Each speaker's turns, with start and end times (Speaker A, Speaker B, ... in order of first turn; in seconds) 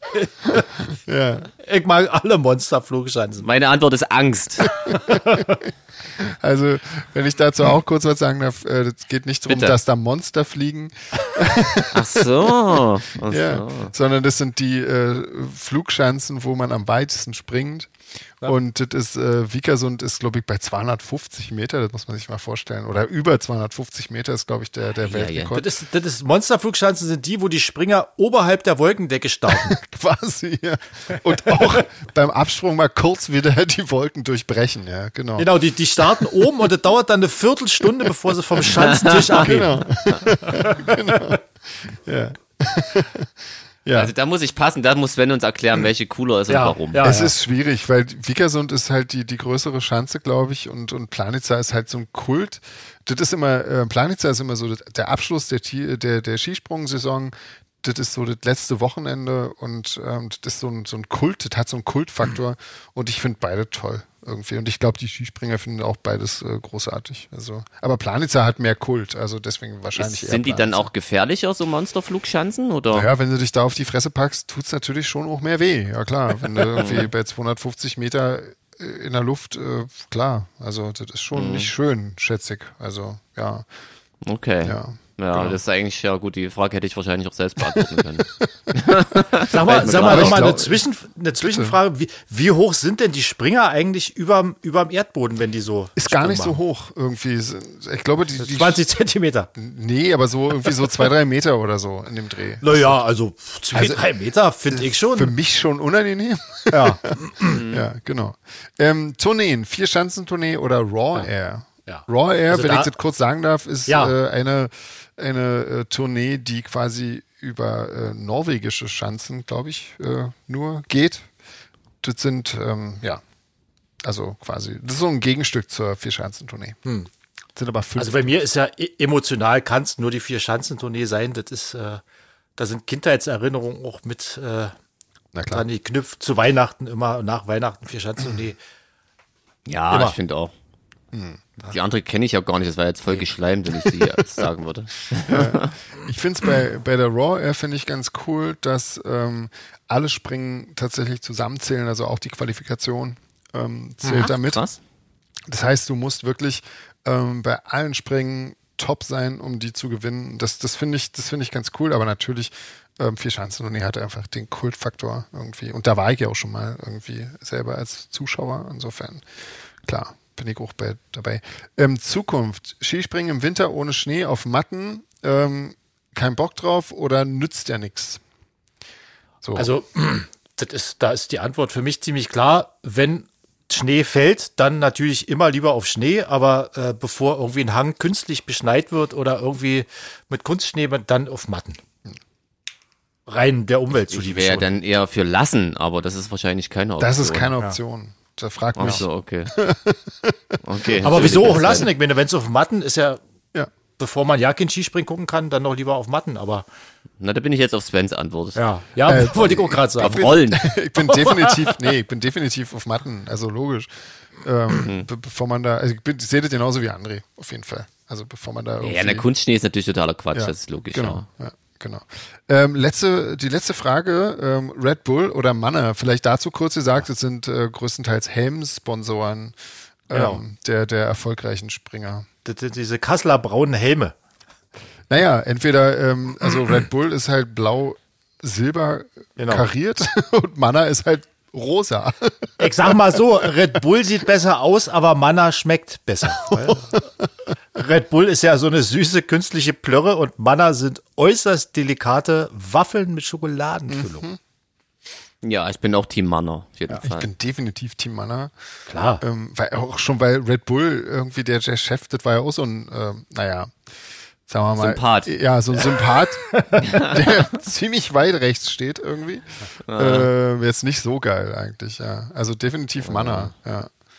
Speaker A: 0.2-0.7, 1.6-3.5, 5.1-5.6, 25.5-29.8, 31.4-31.8, 35.4-41.3, 46.5-47.3, 89.5-96.6, 98.4-99.5, 102.6-105.3, 106.7-107.6, 111.9-112.9, 113.9-114.2, 128.0-132.0, 132.6-134.7, 135.5-138.6, 139.9-140.2, 179.6-191.8, 193.3-194.8, 201.0-203.2, 204.0-206.7, 208.6-210.3, 211.0-211.8, 230.1-230.4, 232.4-234.1, 239.4-239.7, 242.6-247.0, 247.8-254.3, 258.9-259.2, 265.8-267.0
Speaker B: 0.5-1.5, 4.9-5.2, 6.2-17.9, 18.4-25.7, 29.5-35.5, 36.0-36.5, 39.3-43.3, 43.9-44.1, 47.0-70.9, 72.9-83.7, 84.6-85.6, 87.8-88.5, 89.1-90.8, 91.4-91.8, 96.0-98.8, 99.5-103.0, 103.7-104.0, 104.7-121.3, 122.0-123.2, 124.0-126.8, 127.5-128.2, 135.3-135.7, 141.1-141.4, 145.3-154.6, 155.5-169.3, 169.8-178.2, 179.4-179.7, 197.0-201.6, 209.1-219.3, 220.3-229.6, 230.1-232.3, 235.1-242.9, 246.5-247.0, 253.9-254.4, 257.0-258.5, 259.2-263.7, 264.5-273.9
Speaker C: 3.4-4.8, 9.5-9.8, 11.9-13.9, 25.0-25.6, 38.7-39.5, 43.9-47.1, 70.0-73.1, 76.8-77.1, 81.3-81.7, 84.2-90.7, 107.5-107.8, 139.7-140.5, 141.7-145.7, 154.0-154.8, 194.1-197.5, 198.8-199.6, 200.6-201.9, 207.2-208.6, 210.0-210.7, 214.8-215.1, 218.8-221.2, 255.4-257.3, 264.8-265.3, 266.8-267.1, 269.9-270.3, 273.0-273.5